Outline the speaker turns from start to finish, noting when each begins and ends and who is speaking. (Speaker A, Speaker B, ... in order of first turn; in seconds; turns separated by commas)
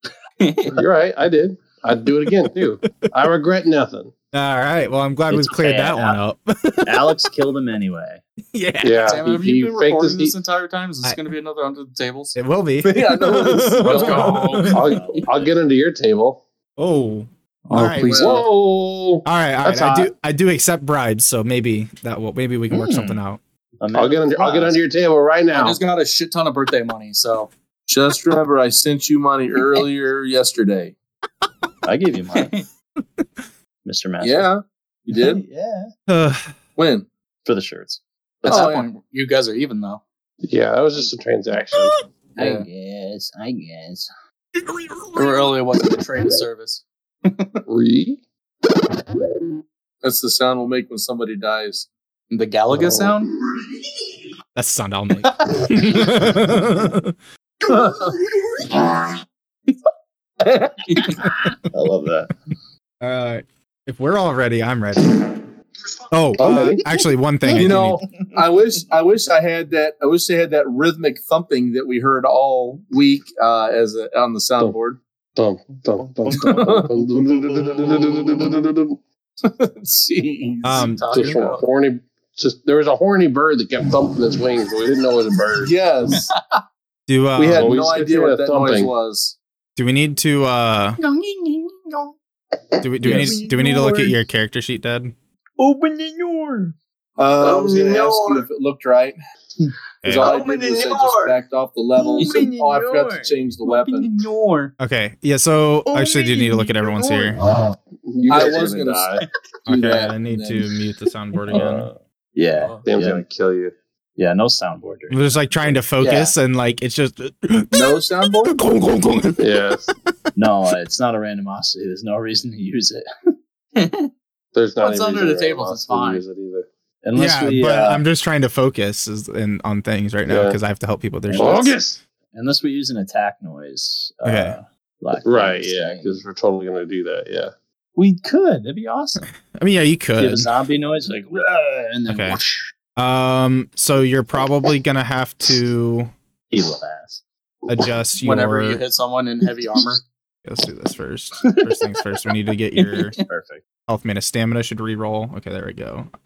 Speaker A: 0.4-0.8, Speaker B: 0.7-4.1, Speaker C: 4.3-7.2, Speaker D: 5.3-6.2, Speaker D: 6.8-8.2, Speaker C: 8.5-9.2, Speaker B: 8.8-10.3, Speaker A: 9.0-12.4, Speaker C: 12.3-15.0, Speaker E: 12.8-14.6, Speaker B: 13.4-16.4, Speaker D: 14.7-15.5, Speaker C: 16.8-18.4, Speaker B: 17.7-20.1, Speaker E: 18.0-18.5, Speaker C: 19.2-23.4, Speaker D: 22.7-23.2, Speaker D: 23.8-24.8, Speaker B: 23.9-25.8, Speaker A: 25.5-27.5, Speaker E: 27.9-30.9, Speaker D: 31.8-32.5, Speaker D: 33.8-34.5, Speaker E: 34.2-35.4, Speaker D: 35.1-35.9, Speaker C: 36.1-36.5, Speaker E: 36.8-37.1, Speaker D: 37.4-38.5, Speaker E: 38.5-38.9, Speaker A: 38.5-40.0, Speaker B: 40.4-42.0, Speaker D: 42.4-44.1, Speaker A: 45.1-47.6, Speaker B: 47.7-48.2, Speaker E: 50.0-51.9, Speaker A: 52.3-53.3, Speaker B: 52.7-53.1, Speaker C: 54.5-57.1, Speaker A: 60.9-61.1, Speaker D: 61.7-62.3, Speaker C: 63.0-65.3, Speaker C: 66.1-68.1, Speaker B: 66.4-66.8, Speaker E: 67.5-75.0, Speaker B: 75.3-79.0, Speaker D: 76.2-76.8, Speaker E: 76.3-76.9, Speaker E: 77.8-78.1, Speaker E: 79.4-81.2, Speaker A: 80.6-81.6, Speaker C: 80.6-81.4, Speaker B: 81.1-85.7, Speaker E: 85.6-86.3, Speaker C: 87.1-87.7, Speaker E: 87.3-89.3, Speaker B: 87.4-88.9, Speaker C: 89.8-91.0, Speaker D: 91.0-92.1, Speaker C: 92.8-95.1, Speaker D: 93.0-94.2, Speaker D: 95.6-96.7, Speaker E: 97.2-99.2, Speaker B: 97.4-97.9, Speaker D: 98.0-98.4, Speaker C: 100.0-100.4, Speaker E: 100.0-104.1, Speaker D: 100.2-101.3, Speaker D: 102.0-103.3, Speaker A: 102.2-102.5, Speaker A: 103.7-104.7, Speaker D: 103.9-104.4, Speaker C: 104.8-107.4, Speaker D: 105.8-107.5, Speaker B: 108.0-109.2, Speaker E: 108.3-110.7, Speaker C: 109.7-111.9, Speaker D: 111.5-113.2, Speaker B: 112.8-113.7, Speaker D: 114.2-115.8, Speaker C: 115.1-119.7, Speaker E: 117.7-118.5, Speaker B: 119.4-119.9, Speaker D: 120.3-123.0, Speaker A: 123.8-124.1, Speaker B: 124.5-126.7, Speaker A: 124.8-126.2, Speaker D: 127.0-128.0, Speaker C: 127.2-131.8, Speaker B: 130.3-130.6, Speaker D: 131.3-131.7, Speaker B: 131.3-132.0, Speaker D: 132.3-136.2, Speaker C: 134.2-134.6, Speaker B: 135.2-137.5, Speaker D: 137.9-139.2, Speaker C: 139.5-140.5, Speaker D: 140.2-142.7, Speaker C: 142.1-142.4, Speaker C: 142.9-146.1, Speaker D: 146.5-147.2, Speaker C: 147.7-148.8, Speaker A: 148.2-150.0, Speaker C: 150.4-153.2, Speaker D: 153.2-153.6, Speaker C: 153.9-156.1